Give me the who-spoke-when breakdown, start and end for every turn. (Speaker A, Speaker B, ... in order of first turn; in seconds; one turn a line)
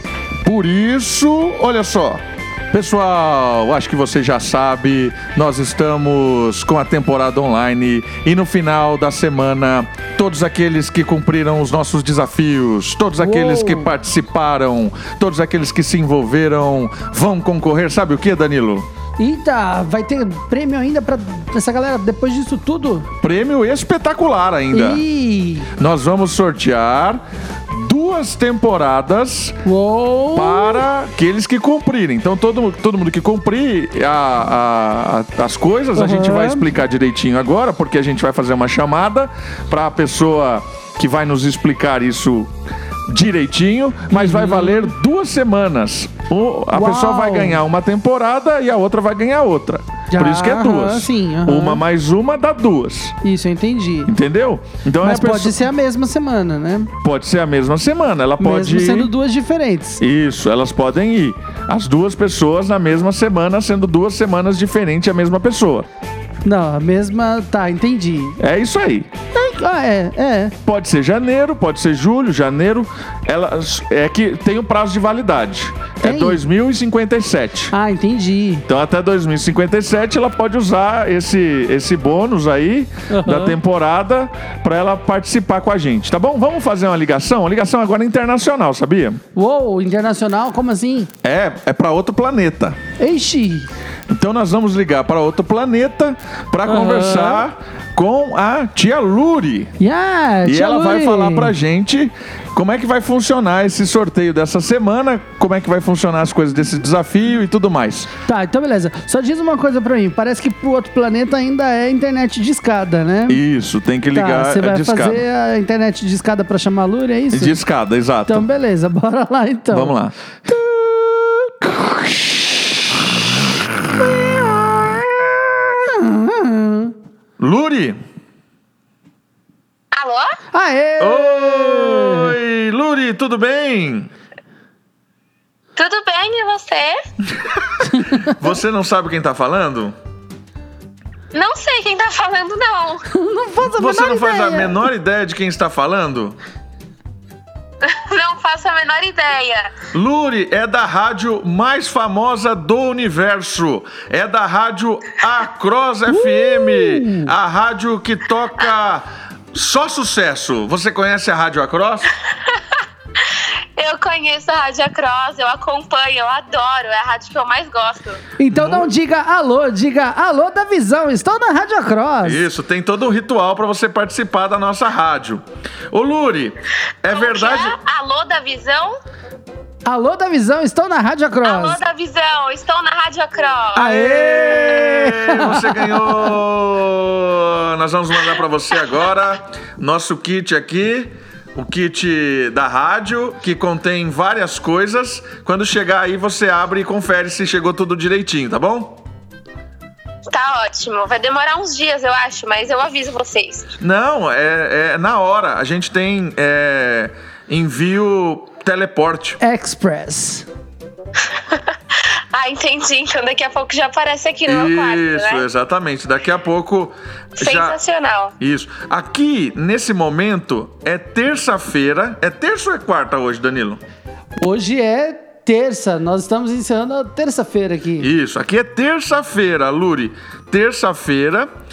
Speaker A: 0.4-18.9
Speaker B: 13.2-13.9
Speaker B: 19.2-23.1
Speaker A: 23.2-25.0
Speaker B: 24.7-25.7
Speaker A: 25.8-29.6
Speaker B: 29.6-30.8
Speaker A: 30.3-42.5
Speaker B: 36.0-36.7
Speaker A: 43.1-53.1
Speaker B: 44.1-44.9
Speaker B: 46.7-47.6
Speaker B: 50.1-51.8
Speaker B: 53.2-54.1
Speaker A: 54.0-55.6
Speaker B: 55.0-56.9
Speaker A: 57.0-59.1
Speaker B: 58.4-60.0
Speaker A: 60.0-65.9
Speaker B: 66.4-68.4
Speaker A: 68.4-69.1
Speaker B: 69.3-70.5
Speaker A: 70.6-77.7
Speaker B: 76.0-76.4
Speaker B: 77.7-78.7
Speaker A: 78.7-89.2
Speaker B: 83.1-83.6
Speaker B: 89.3-91.1
Speaker A: 91.2-92.8
Speaker B: 93.0-93.7
Speaker A: 94.1-99.7
Speaker B: 96.6-97.4
Speaker B: 99.8-101.5
Speaker A: 100.4-108.1
Speaker B: 108.2-113.4
Speaker A: 113.3-115.2
Speaker B: 114.1-117.6
Speaker A: 117.3-118.5
Speaker B: 118.2-120.0
Speaker A: 119.7-125.7
Speaker B: 125.9-126.9
Speaker A: 127.4-128.0
Speaker C: 129.9-130.3
Speaker B: 130.5-132.3
Speaker A: 131.0-134.1
Speaker C: 135.8-137.0
Speaker A: 137.4-139.9
Speaker B: 137.9-138.3
Speaker C: 141.3-143.0
Speaker B: 143.1-144.8
Speaker A: 143.6-146.4
Speaker C: 147.8-149.7
Speaker A: 149.9-162.1
Speaker B: 156.1-157.3
Speaker C: 163.8-168.2
Speaker B: 168.4-172.4
Speaker A: 168.5-168.9
Speaker A: 172.2-177.8
Speaker C: 177.1-179.0
Speaker B: 179.8-181.8
Speaker C: 181.4-184.8
Speaker A: 183.7-199.0
Speaker B: 183.8-186.0
Speaker C: 200.3-203.7
Speaker A: 203.8-209.4
Speaker B: 209.4-210.4
Speaker C: 212.3-215.4
Speaker A: 214.4-217.8
Speaker C: 217.4-218.3
Speaker A: 218.4-223.8
Speaker B: 224.4-228.1
Speaker A: 228.0-231.5